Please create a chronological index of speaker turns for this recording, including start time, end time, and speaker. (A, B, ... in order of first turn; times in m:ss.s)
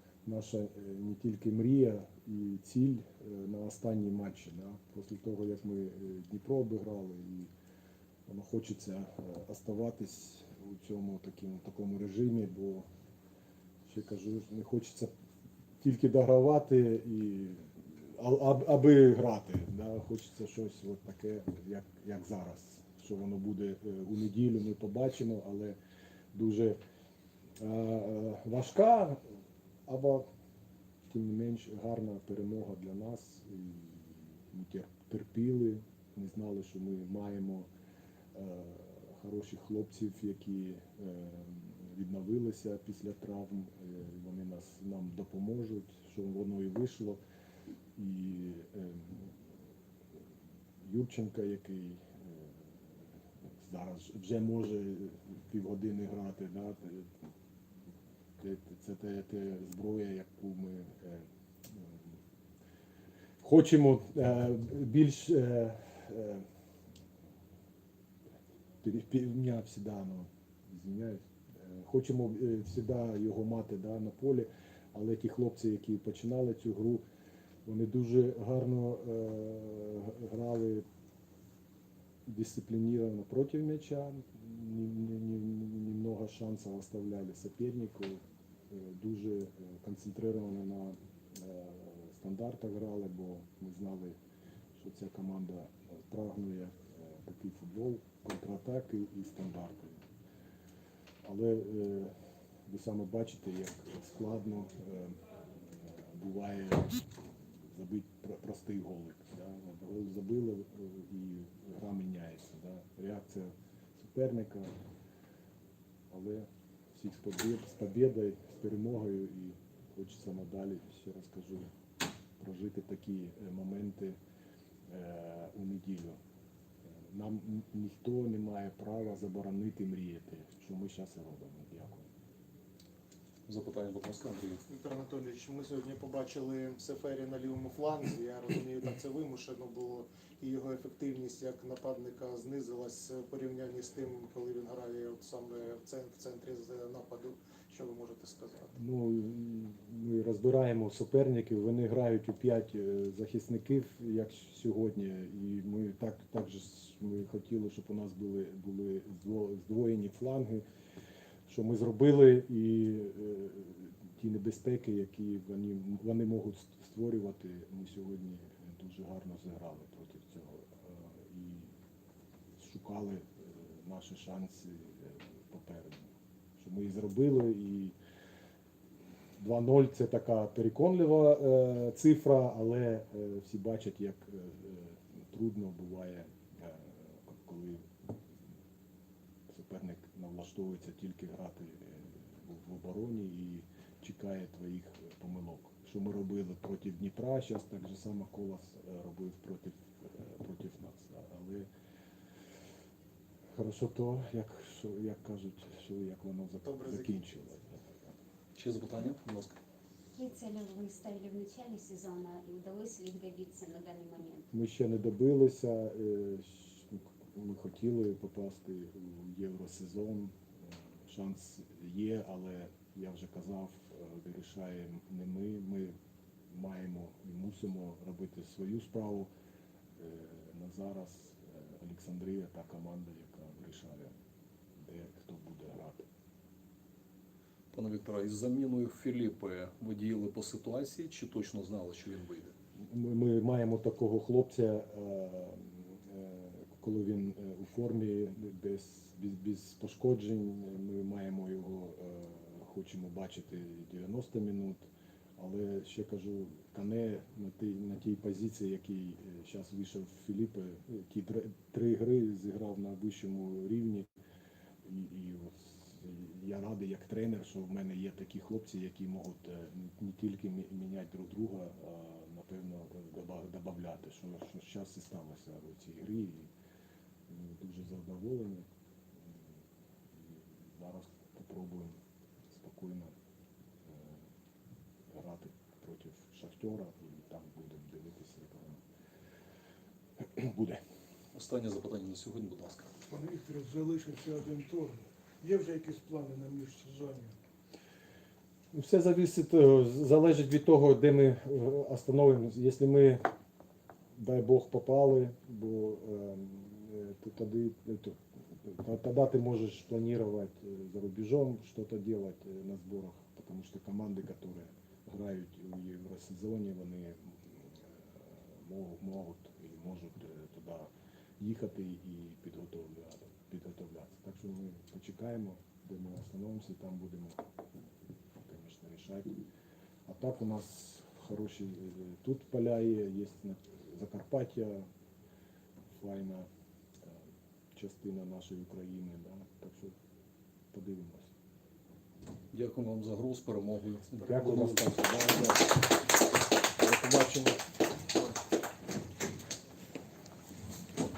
0:00.2-0:07.5 A
0:08.3-0:12.9 A
0:13.8-0:15.1 A
0:15.8-0:25.8 A
0:26.3-0:26.8 A
0:27.6-0:29.2 A
0:29.9-0:30.2 A
0:31.0-0:37.7 A
0:38.3-0:47.2 A
0:48.0-0:49.3 A
0:50.8-0:57.1 A
0:58.4-1:02.2 A
1:03.4-1:06.4 A
1:08.8-1:17.0 A
1:17.6-1:20.8 A
1:22.2-1:34.2 A
1:34.7-1:40.0 A
1:41.2-1:42.1 A
1:42.7-1:47.0 A
1:47.6-1:54.7 A
1:56.1-2:01.7 A
2:02.4-2:04.2 A
2:04.9-2:06.2 A
2:07.0-2:12.1 A
2:13.5-2:14.6 B
2:14.7-2:28.7 C
2:28.8-2:40.6 A
2:41.5-2:51.7 A
2:52.6-2:58.0 A
2:59.4-3:07.9 A
3:09.5-3:21.7 A
3:23.5-3:28.1 A
3:26.6-3:27.2 C
3:28.6-3:29.6 B
3:30.1-3:34.4 D
3:34.5-3:40.4 A
3:41.0-3:45.9 A
3:46.5-3:49.3 A
3:50.0-3:54.1 A
3:54.8-3:56.0 A
3:57.7-4:02.5 B
4:02.8-4:14.9 A
4:15.4-4:24.1 A
4:24.8-4:36.5 A
4:37.3-4:38.7 A
4:39.2-4:39.6 A
4:40.1-4:42.0 A
4:42.5-4:43.1 A
4:43.8-4:44.2 A
4:45.1-4:48.8 A
4:50.2-4:50.8 A
4:51.3-4:52.9 B
4:53.1-4:57.3 E
4:58.7-5:03.3 A
5:04.1-5:27.4 A
5:28.4-5:29.4 A
5:30.0-5:34.9 A
5:35.9-5:36.5 A
5:37.0-5:40.0 A
5:40.7-5:41.3 A
5:42.5-5:45.0 B
5:44.2-5:45.7 A
5:46.8-5:47.6 A